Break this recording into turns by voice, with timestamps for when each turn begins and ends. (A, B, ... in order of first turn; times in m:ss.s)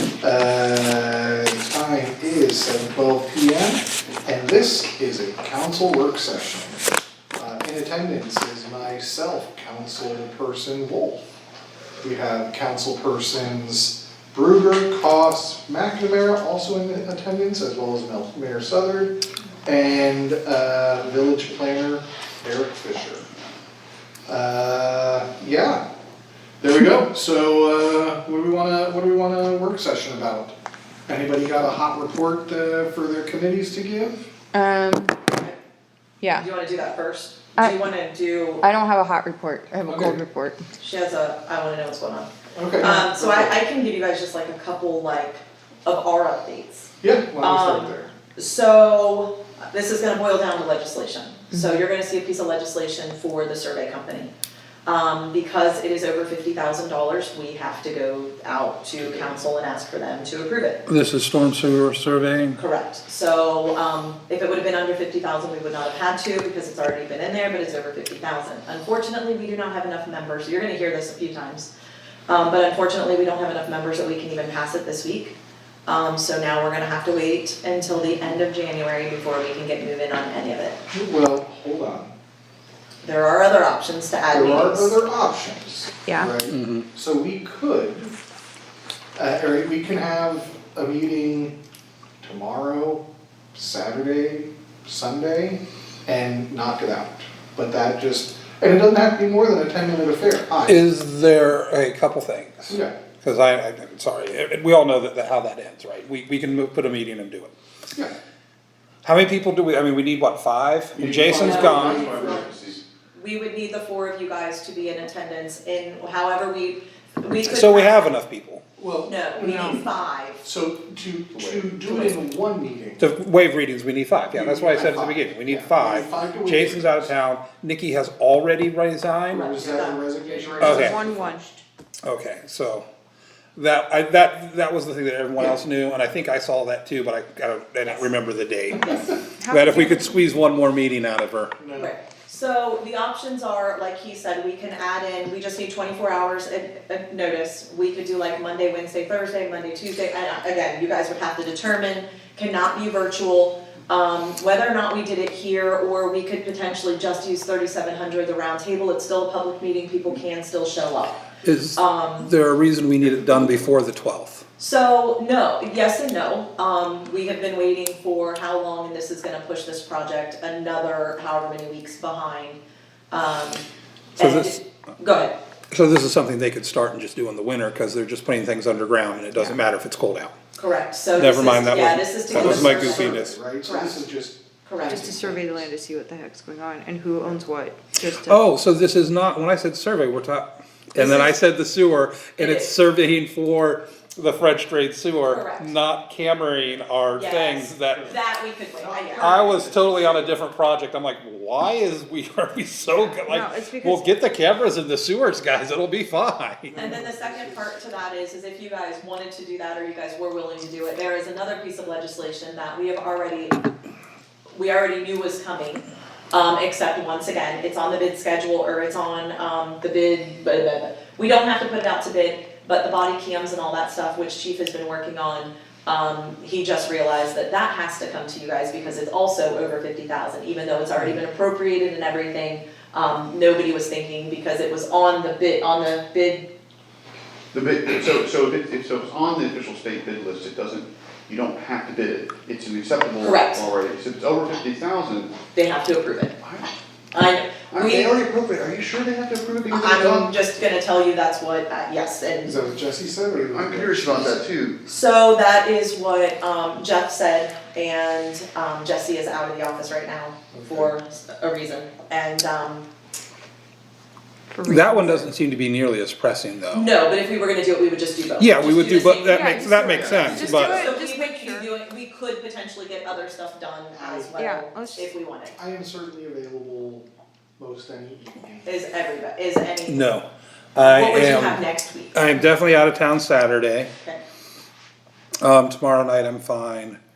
0:00.2-0:06.8 A
0:07.4-0:11.2 A
0:12.0-0:23.2 A
0:24.3-0:25.8 A
0:26.6-0:30.5 A
0:31.1-0:34.3 A
0:34.5-0:35.2 B
0:36.2-0:36.5 B
0:36.3-0:38.6 C
0:37.6-0:37.8 B
0:38.6-0:40.6 B
0:39.9-0:40.2 A
0:40.8-0:54.3 C
0:42.5-0:43.6 A
0:47.0-0:48.1 A
0:54.8-1:00.8 C
0:59.0-0:59.3 A
1:00.9-1:02.6 D
1:02.6-1:11.7 C
1:12.3-1:20.8 C
1:18.1-1:18.4 A
1:20.9-1:22.1 A
1:23.0-1:25.0 C
1:24.3-1:28.1 A
1:26.0-1:26.3 B
1:26.5-1:26.8 D
1:29.2-1:31.6 A
1:32.2-1:40.8 A
1:40.6-1:47.5 D
1:42.7-1:42.9 A
1:49.0-1:52.1 D
1:50.9-1:52.8 E
1:51.4-1:52.5 C
1:51.5-1:52.5 A
1:53.1-1:58.1 C
1:57.4-1:58.6 D
1:58.8-1:59.9 A
1:59.0-2:00.4 C
1:59.4-1:59.8 B
2:00.4-2:03.1 A
2:01.3-2:02.1 E
2:03.0-2:09.5 D
2:04.3-2:07.1 A
2:09.3-2:10.0 C
2:09.3-2:11.5 A
2:10.6-2:11.6 B
2:10.6-2:11.0 D
2:12.0-2:12.8 D
2:13.6-2:21.5 D
2:18.8-2:19.1 C
2:19.4-2:20.2 B
2:21.6-2:21.9 A
2:21.7-2:42.3 C
2:41.4-2:44.4 D
2:44.6-2:52.6 C
2:53.1-2:53.6 C
2:54.2-2:55.3 C
2:54.2-2:54.6 D
2:55.7-3:00.3 D
3:00.6-3:04.0 C
3:01.1-3:03.4 D
3:02.3-3:05.7 A
3:04.6-3:05.0 C
3:04.8-3:08.4 B
3:08.2-3:18.2 D
3:10.9-3:11.3 C
3:12.4-3:12.7 C
3:15.2-3:15.7 C
3:17.2-3:19.7 C
3:17.9-3:18.2 A
3:18.7-3:20.4 A
3:19.2-3:26.9 D
3:22.9-3:23.2 C
3:23.3-3:24.1 B
3:26.7-3:27.7 A
3:26.8-3:33.6 C
3:34.5-3:56.5 C
3:57.5-4:05.3 E
4:03.2-4:03.6 C
4:05.5-4:06.3 C
4:06.4-4:06.7 E
4:07.1-4:08.2 C
4:07.7-4:10.3 E
4:09.7-4:12.6 C
4:12.4-4:14.4 A
4:13.4-4:14.8 E
4:14.8-4:22.9 C
4:20.5-4:20.9 A
4:24.5-4:25.3 B
4:24.6-4:26.9 D
4:26.7-4:35.5 C
4:28.4-4:30.9 D
4:29.3-4:31.7 B
4:30.1-4:30.6 E
4:34.0-4:34.4 A
4:34.4-4:35.1 B
4:35.5-4:37.1 A
4:37.6-4:38.8 A
4:38.6-4:40.1 C
4:39.9-4:41.6 D
4:40.8-4:42.2 C
4:42.1-4:43.9 D
4:45.4-4:47.0 D